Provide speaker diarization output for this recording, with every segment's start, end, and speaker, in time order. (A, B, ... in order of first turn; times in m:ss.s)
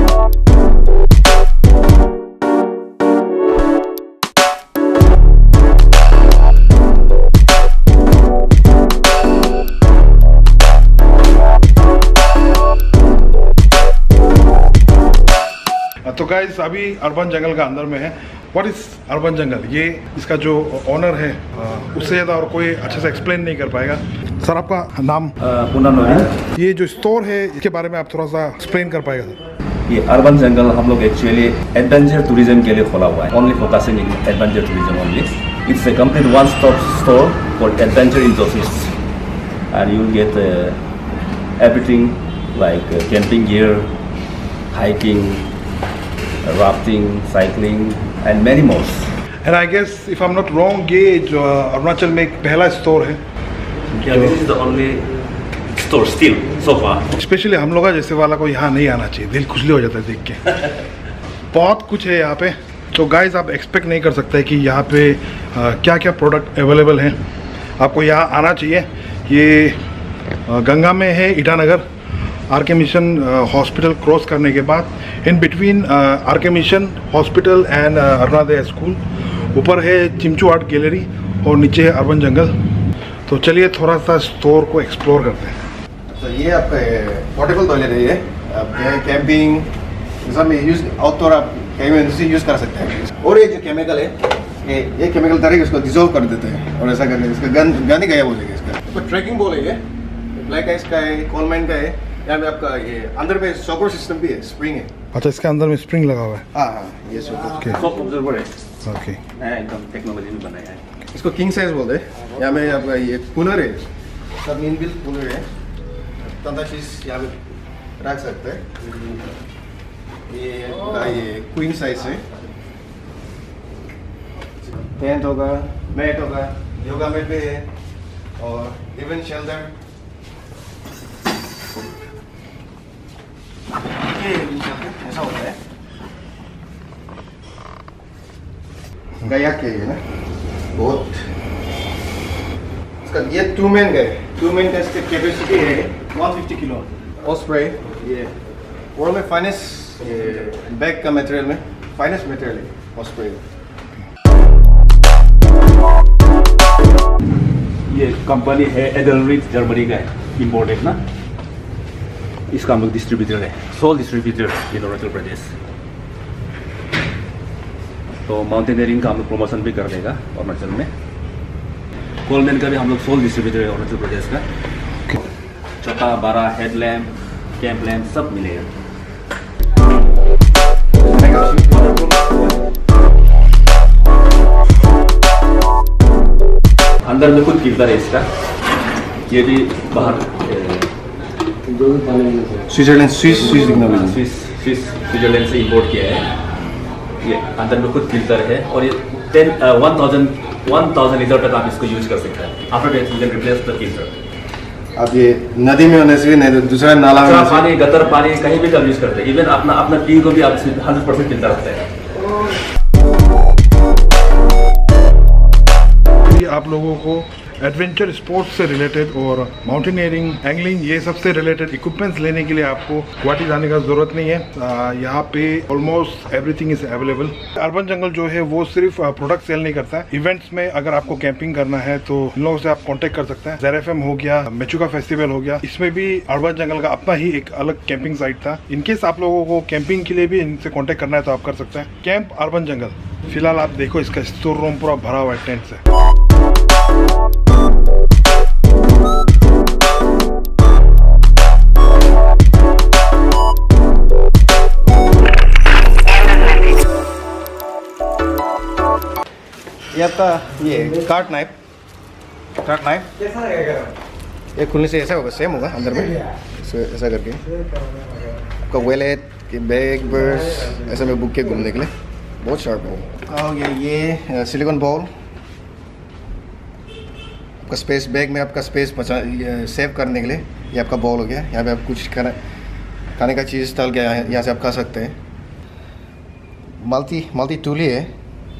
0:16.0-0:25.3 A
0:25.4-0:26.3 B
0:26.5-0:29.4 A
0:29.9-0:38.9 B
0:39.7-0:40.8 B
0:41.6-0:43.9 B
0:44.7-0:45.5 B
0:46.4-0:49.1 B
0:49.4-0:53.2 A
0:54.0-0:55.1 B
0:54.0-0:54.4 A
0:55.7-0:57.0 B
0:57.2-1:00.6 A
1:01.5-1:07.2 A
1:07.8-1:09.8 A
1:10.5-1:11.8 A
1:12.5-1:22.5 A
1:23.3-1:25.6 A
1:26.1-1:39.8 C
1:40.3-1:44.9 C
1:45.1-1:46.5 A
1:46.5-1:47.7 C
1:47.7-1:48.5 B
1:48.8-1:49.2 A
1:49.4-1:50.8 B
1:51.1-1:53.8 C
1:54.4-1:55.4 C
1:56.2-1:57.4 C
1:58.0-1:58.8 C
2:00.3-2:02.2 C
2:04.7-2:07.7 C
2:08.4-2:09.7 C
2:14.0-2:15.6 C
2:19.2-2:20.0 C
2:20.7-2:21.3 C
2:23.0-2:28.3 C
2:28.9-2:33.4 C
2:37.9-2:41.0 B
2:42.5-2:45.5 B
2:48.2-2:50.9 B
2:52.2-2:54.4 B
2:55.8-2:58.7 B
3:01.0-3:01.7 C
3:01.7-3:02.3 B
3:07.0-3:08.3 B
3:09.3-3:10.9 B
3:12.7-3:14.2 C
3:13.4-3:16.3 B
3:17.2-3:24.2 B
3:25.0-3:27.7 C
3:27.2-3:31.9 B
3:36.2-4:05.8 A
4:19.9-4:21.5 C
4:22.6-4:23.1 C
4:24.5-4:27.4 C
4:28.6-4:35.1 C
4:37.6-4:42.4 C
4:43.2-4:45.2 C
4:46.8-4:48.1 C